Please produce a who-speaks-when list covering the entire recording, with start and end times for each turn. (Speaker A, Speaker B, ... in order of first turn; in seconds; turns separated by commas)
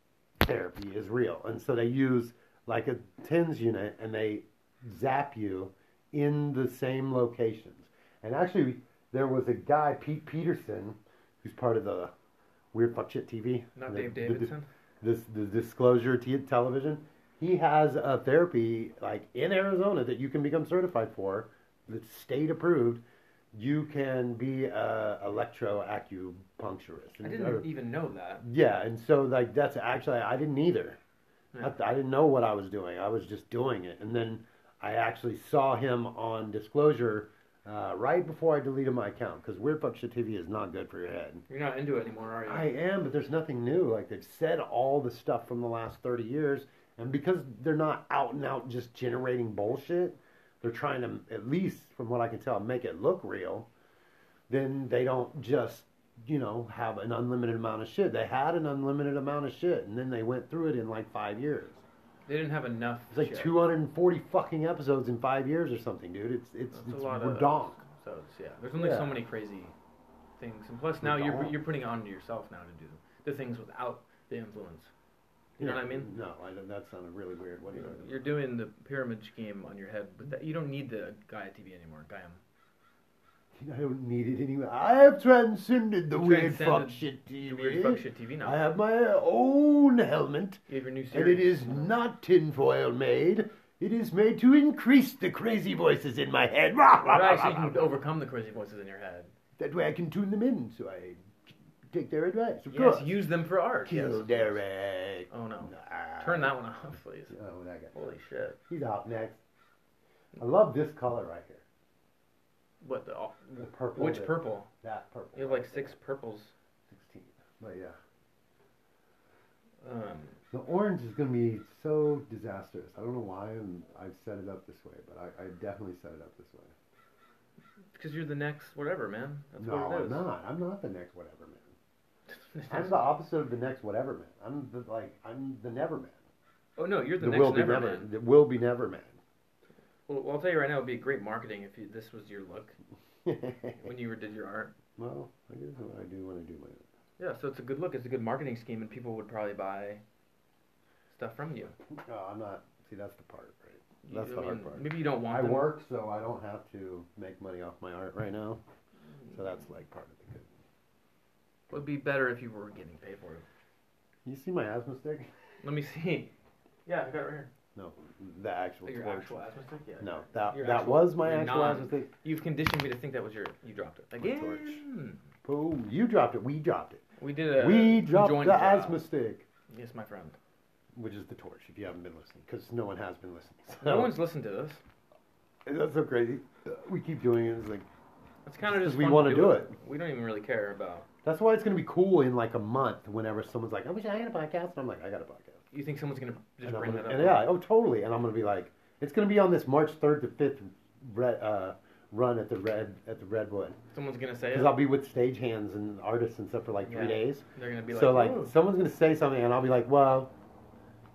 Speaker A: 0.4-12.1, Speaker A: 12.7-27.7, Speaker B: 13.7-14.7, Speaker B: 27.2-28.4, Speaker A: 28.4-31.0, Speaker A: 31.6-41.4, Speaker B: 41.5-42.7, Speaker A: 42.5-53.7, Speaker A: 54.5-61.8, Speaker B: 62.3-63.5, Speaker A: 63.1-67.8, Speaker B: 66.7-69.7, Speaker A: 68.7-69.2, Speaker B: 70.4-74.9, Speaker A: 71.0-71.5, Speaker B: 75.6-76.1, Speaker A: 75.6-78.3, Speaker B: 77.7-82.4, Speaker A: 83.5-90.6, Speaker B: 86.1-88.6, Speaker B: 90.7-91.9, Speaker A: 91.1-98.0, Speaker B: 97.1-99.3, Speaker A: 99.6-101.3, Speaker A: 101.9-103.2, Speaker B: 102.7-104.6, Speaker A: 103.8-106.6, Speaker B: 105.3-107.3, Speaker A: 107.3-108.1, Speaker B: 107.9-108.6, Speaker A: 108.7-109.4, Speaker A: 110.3-111.6, Speaker B: 112.8-114.7, Speaker A: 113.6-115.9, Speaker B: 115.3-116.5, Speaker A: 116.9-118.0, Speaker B: 119.8-120.4, Speaker A: 120.5-126.7, Speaker B: 127.9-130.2, Speaker A: 129.6-131.7, Speaker B: 132.3-133.2, Speaker A: 132.7-136.2, Speaker B: 136.8-138.1, Speaker A: 137.2-139.2, Speaker B: 140.1-142.8, Speaker A: 143.2-143.9, Speaker B: 143.8-144.7, Speaker A: 145.0-146.8, Speaker B: 147.2-150.0, Speaker B: 151.1-151.7, Speaker A: 151.9-158.6, Speaker B: 154.0-155.7, Speaker A: 159.3-160.5, Speaker B: 161.7-163.4, Speaker A: 164.2-165.3, Speaker B: 165.6-166.3, Speaker B: 166.8-167.5, Speaker A: 167.7-169.3, Speaker B: 168.8-175.2, Speaker A: 170.0-172.1, Speaker A: 174.2-174.8, Speaker A: 175.4-177.0, Speaker B: 177.2-179.0, Speaker A: 177.6-179.4, Speaker B: 179.7-180.4, Speaker A: 180.9-184.1, Speaker B: 183.8-184.8, Speaker A: 185.7-187.9, Speaker B: 188.4-191.1, Speaker A: 188.6-189.7, Speaker A: 191.2-195.6, Speaker B: 195.7-197.5, Speaker A: 196.6-203.8, Speaker B: 203.9-204.8, Speaker A: 204.5-210.3, Speaker B: 206.8-208.5